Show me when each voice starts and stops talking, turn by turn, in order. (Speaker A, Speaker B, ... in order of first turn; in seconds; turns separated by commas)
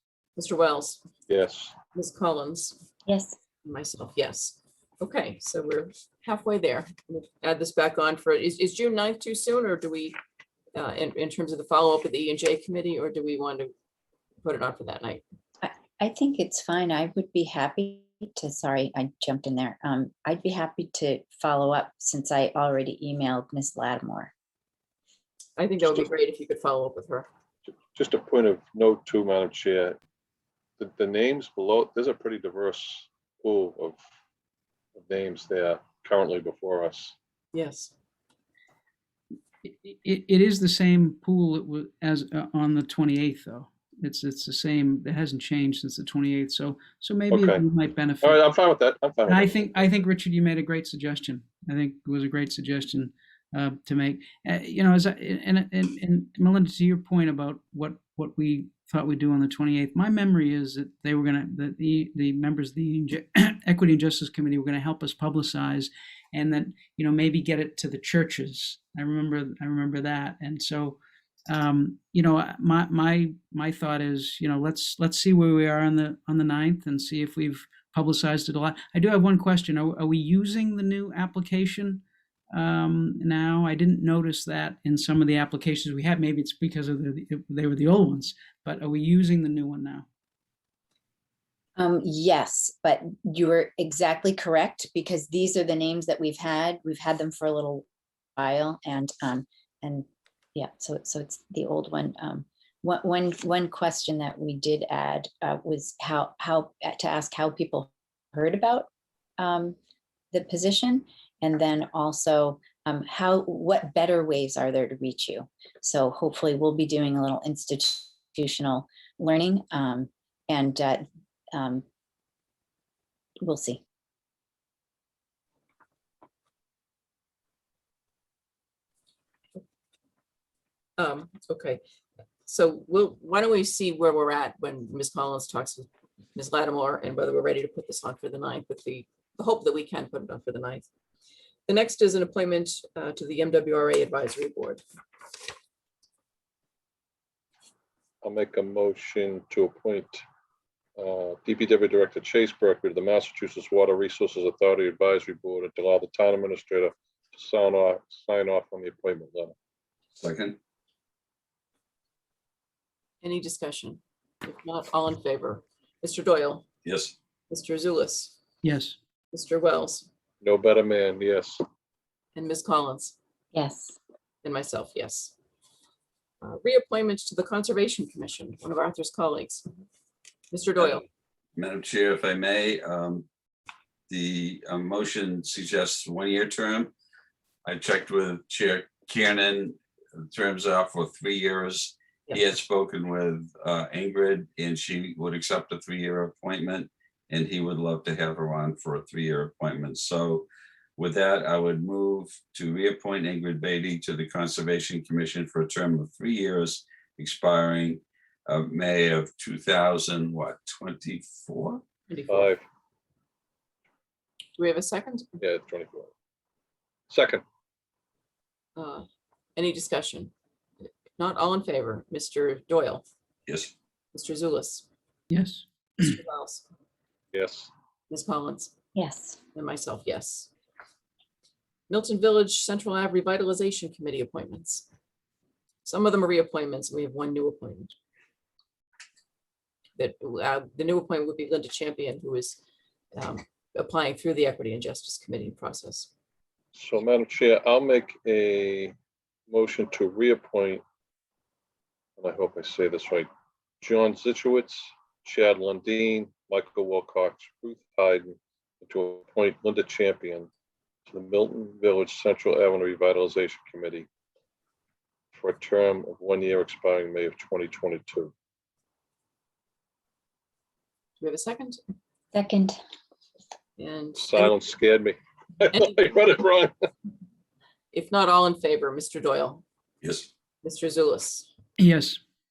Speaker A: 0.3-1.0, Speaker B: 1.3-1.7, Speaker A: 1.9-2.8, Speaker C: 3.1-3.4, Speaker A: 3.6-10.2, Speaker A: 10.7-13.7, Speaker A: 14.4-15.2, Speaker C: 15.6-24.3, Speaker A: 25.6-27.3, Speaker B: 27.7-30.0, Speaker B: 30.8-34.0, Speaker B: 35.0-37.1, Speaker A: 37.5-37.9, Speaker D: 39.6-48.4, Speaker B: 47.3-47.6, Speaker B: 48.2-50.0, Speaker D: 49.3-71.0, Speaker D: 71.5-90.0, Speaker C: 91.8-97.8, Speaker C: 98.4-108.9, Speaker C: 109.4-109.8, Speaker C: 110.3-121.8, Speaker C: 123.4-123.8, Speaker A: 131.0-131.8, Speaker A: 132.4-140.8, Speaker A: 141.7-144.8, Speaker B: 148.2-150.2, Speaker B: 151.0-159.5, Speaker E: 160.2-160.6, Speaker A: 163.2-166.7, Speaker E: 166.8-167.1, Speaker A: 167.5-168.4, Speaker D: 168.6-168.9, Speaker A: 169.3-170.1, Speaker B: 170.4-171.6, Speaker A: 172.3-173.1, Speaker C: 173.5-173.9, Speaker A: 174.4-175.3, Speaker A: 176.4-179.7, Speaker A: 180.5-181.0, Speaker E: 181.5-183.3, Speaker E: 184.1-186.9, Speaker E: 187.6-211.8, Speaker A: 212.1-212.5, Speaker B: 212.3-212.6, Speaker A: 214.6-215.3, Speaker B: 215.4-216.1, Speaker B: 217.1-217.4, Speaker A: 218.8-220.3, Speaker A: 221.2-223.0, Speaker E: 223.5-223.7, Speaker A: 224.1-224.9, Speaker D: 225.3-226.1, Speaker A: 226.0-226.7, Speaker B: 227.3-227.7, Speaker A: 228.1-228.7, Speaker C: 228.9-229.4, Speaker A: 229.5-230.5, Speaker A: 231.9-234.9, Speaker A: 235.8-237.9, Speaker A: 240.0-242.6, Speaker A: 243.1-246.1, Speaker B: 246.7-248.9, Speaker B: 249.5-250.8, Speaker B: 252.2-253.3, Speaker B: 253.8-260.5, Speaker B: 261.1-264.1, Speaker B: 265.3-268.3, Speaker A: 271.2-271.8, Speaker C: 272.3-272.8, Speaker A: 273.8-274.5, Speaker B: 274.1-276.7, Speaker A: 275.7-276.0, Speaker A: 277.9-279.6, Speaker E: 280.0-280.3, Speaker A: 280.6-281.5, Speaker D: 281.8-282.2